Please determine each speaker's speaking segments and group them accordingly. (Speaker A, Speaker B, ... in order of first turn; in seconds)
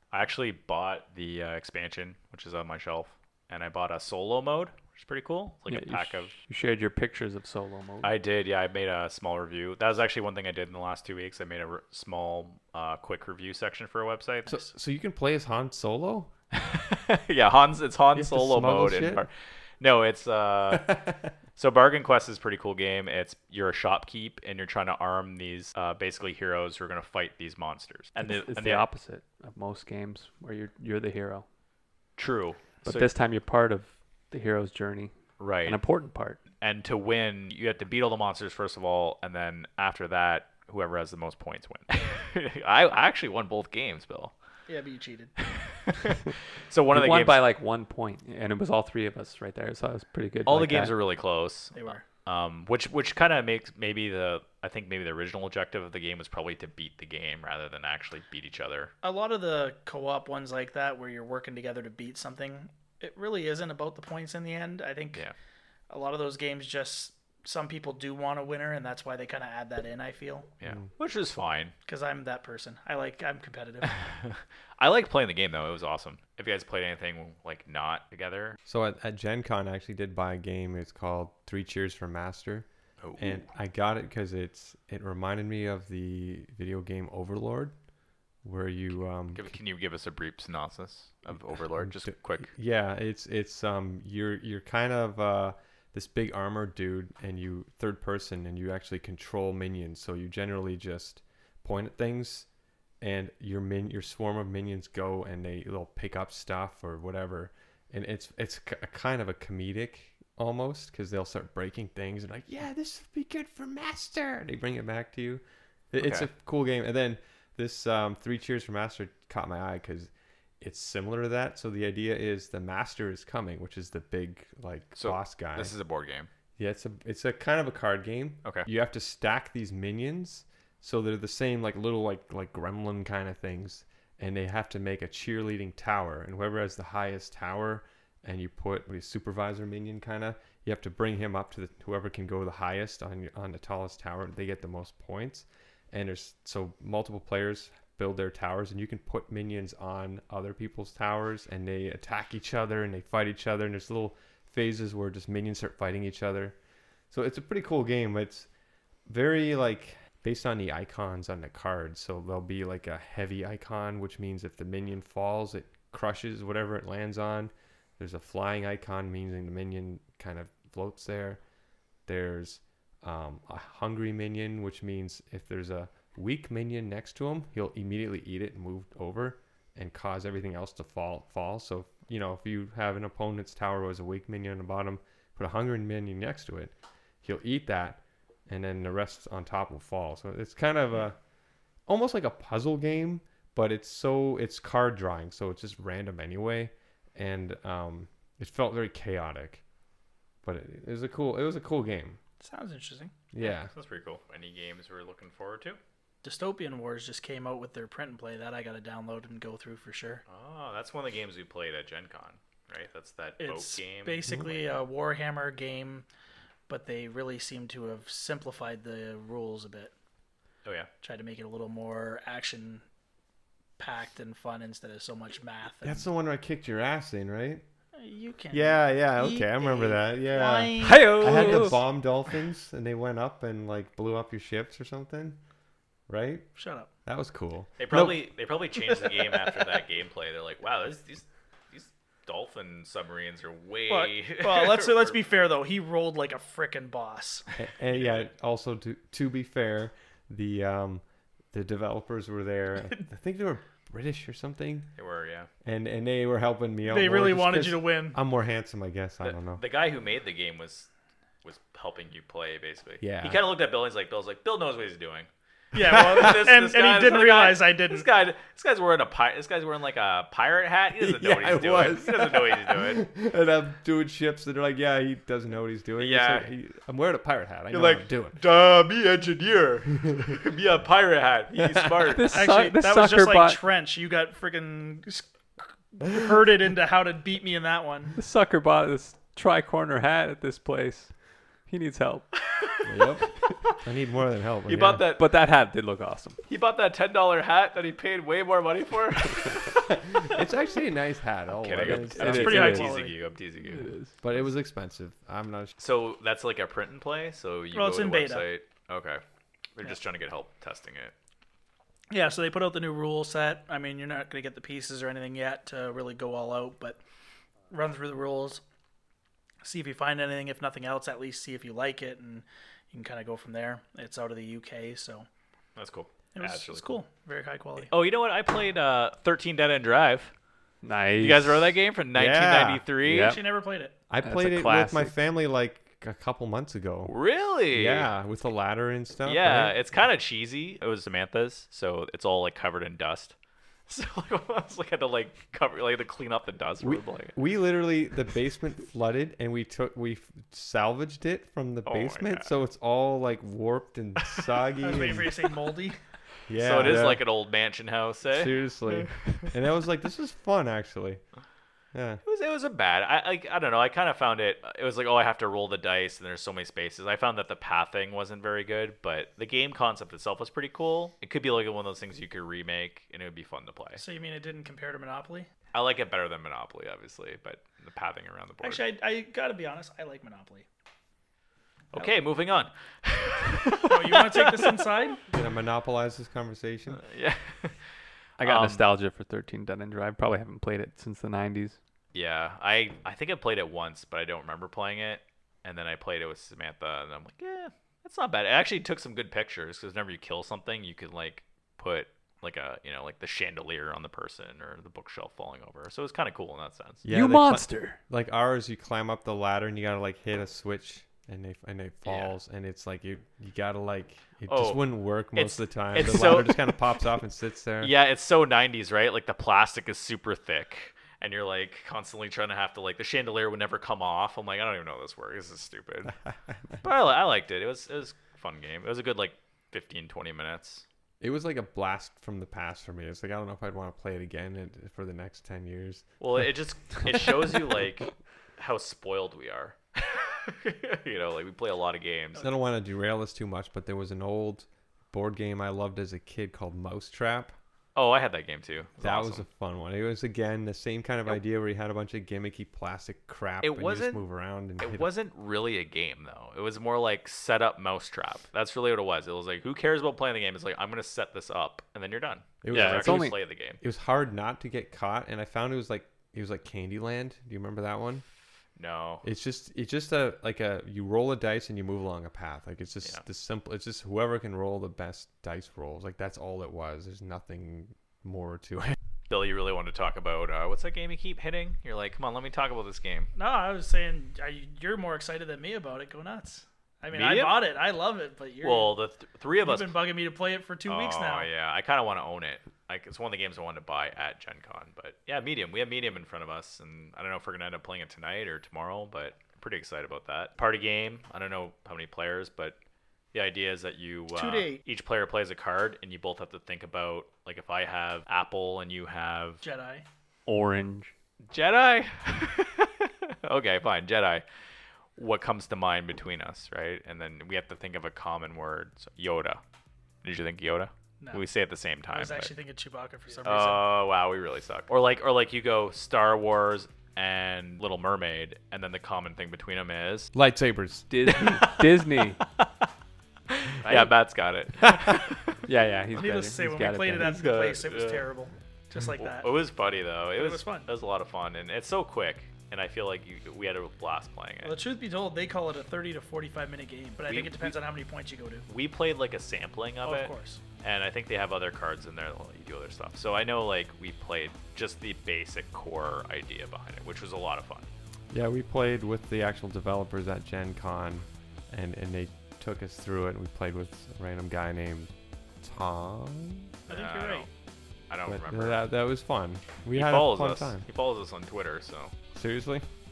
Speaker A: 0.1-6.3, 8.0-14.6, 16.5-21.0, 21.6-28.9, 32.2-33.1, 35.4-35.8, 36.6-44.3, 45.4-47.4, 50.5-58.9, 70.6-71.8, 73.9-78.6, 83.0-83.5, 89.3-92.5, 116.0-116.3, 125.0-126.3, 203.4-205.8, 210.3-214.3, 220.6-220.9, 237.8-245.2, 247.9-248.3, 255.0-255.5, 259.2-260.9, 261.4-273.0, 276.0-276.5, 277.7-282.4, 294.7-295.3, 296.5-300.4, 301.5-303.9, 305.8-309.2, 309.8-311.1, 325.8-327.0, 327.8-330.3, 331.2-333.4, 337.1-338.1, 339.3-343.3, 343.9-347.4, 351.9-352.5, 356.6-359.5, 362.2-374.0, 375.7-378.9, 381.9-384.9, 387.0-387.8, 388.4-388.9, 392.1-407.0, 412.1-412.3, 414.5-417.0, 417.8-426.2, 426.8-430.8, 436.2-442.4, 447.9-449.4, 453.6-454.2, 454.8-463.8, 468.8-469.2, 479.3-483.3, 487.1-487.7, 488.6-490.0, 490.9-502.8, 503.3-509.6, 511.5-514.5, 515.2-519.6, 520.2-522.5, 523.4-530.3, 531.3-531.9, 533.5-535.6, 537.2-538.3, 539.2-544.8, 547.3-547.8, 548.7-557.9, 566.9-567.5, 568.1-568.8, 569.9-572.1
Speaker B: 5.7-8.1, 28.2-31.4, 32.9-36.4, 46.9-51.0, 230.8-231.8, 282.1-283.6, 288.2-291.1, 291.7-292.3, 294.7-296.4, 301.8-302.9, 303.8-304.1, 330.8-331.7, 333.0-333.4, 334.2-335.1, 388.4-391.8, 407.1-408.0, 462.7-463.4, 510.5-511.1, 531.1-532.4, 533.9-534.1, 535.6-537.4
Speaker C: 14.5-16.3, 18.1-19.2, 20.7-21.1, 78.7-87.8, 88.4-89.5, 91.8-102.5, 103.0-125.7, 126.6-156.6, 157.1-158.5, 159.1-171.4, 172.1-191.2, 191.9-199.6, 200.4-202.2, 203.3-203.7, 214.3-214.5, 225.8-227.6, 228.5-235.4, 236.1-236.5, 237.1-238.2, 247.6-254.9, 255.6-259.6, 263.0-263.4, 271.0-278.4, 280.1-280.3, 281.6-282.2, 292.9-295.1, 299.9-302.9, 304.2-305.7, 332.1-332.9, 334.1-337.1, 337.7-339.8, 346.8-355.3, 356.5-357.2, 358.3-361.2, 361.9-362.2, 385.3-387.0, 407.0-417.9, 431.2-436.1, 442.4-447.6, 449.0-455.1, 462.6-468.2, 469.2-479.0, 530.3-531.1, 558.3-566.7, 568.3-570.9, 572.3-572.9
Speaker D: 44.7-45.3, 51.8-52.0, 59.0-65.2, 65.9-70.5, 71.9-74.0, 202.4-203.1, 206.2-210.2, 213.4-216.1, 216.7-219.9, 221.0-222.8, 223.8-226.1, 228.0-231.6, 236.6-236.9, 238.9-239.7, 243.9-247.5, 256.9-258.2, 265.7-268.1, 282.3-285.3, 285.9-288.2, 302.2-303.1, 307.7-308.5, 312.1-317.0, 317.7-318.6, 319.6-325.3, 326.4-327.9, 333.1-333.9, 354.8-356.0, 374.0-375.5, 378.6-380.6, 383.9-385.2, 483.4-489.0, 489.6-491.5, 504.3-504.8, 509.6-510.1, 522.1-523.9, 536.1-539.5, 540.4-540.9, 544.6-548.7, 550.0-550.6, 566.9-567.5